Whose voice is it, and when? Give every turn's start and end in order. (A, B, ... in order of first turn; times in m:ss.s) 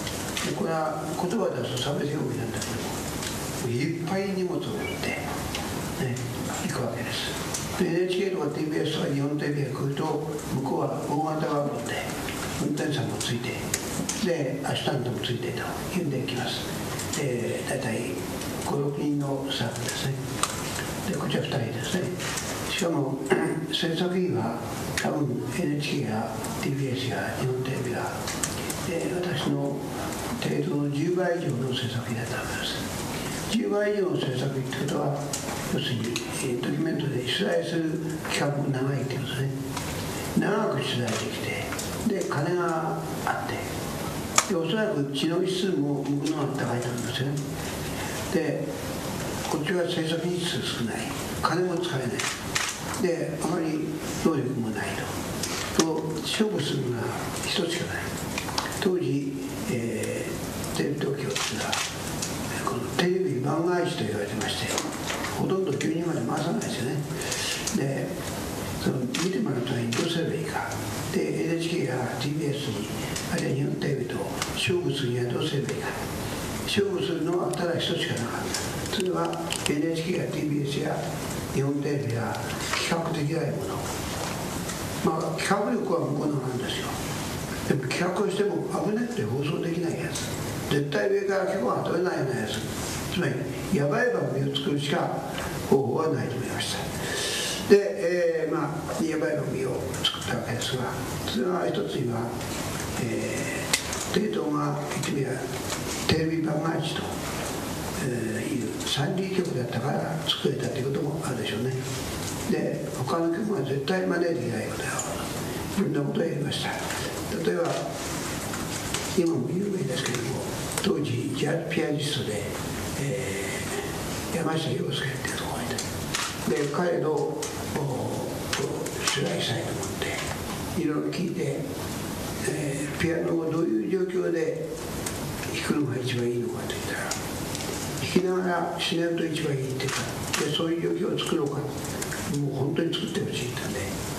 0:00.4-0:03.0 A
0:03.6-0:05.2 A
0:06.0-0:13.6 A
0:14.2-0:20.2 A
0:21.0-0:22.1 A
0:22.7-0:28.1 A
0:28.8-0:29.8 A
0:30.4-0:32.8 A
0:33.5-0:35.2 A
0:35.7-0:39.5 A
0:40.3-0:43.6 A
0:44.5-0:47.4 A
0:48.3-0:48.6 A
0:49.5-0:52.3 A
0:53.0-0:55.1 A
0:55.7-0:58.1 A
0:58.8-1:01.8 A
1:02.6-1:07.0 A
1:07.5-1:08.1 A
1:08.8-1:16.0 A
1:16.6-1:21.0 A
1:21.5-1:23.8 A
1:25.0-1:26.9 A
1:27.7-1:35.2 A
1:35.7-1:42.3 A
1:43.0-1:45.4 A
1:46.0-1:47.1 A
1:48.0-1:51.8 A
1:52.5-1:57.8 A
1:59.1-2:03.8 A
2:04.3-2:05.8 A
2:06.4-2:10.2 A
2:10.7-2:11.6 A
2:12.4-2:14.6 A
2:15.5-2:17.1 A
2:18.0-2:21.7 A
2:22.3-2:23.9 A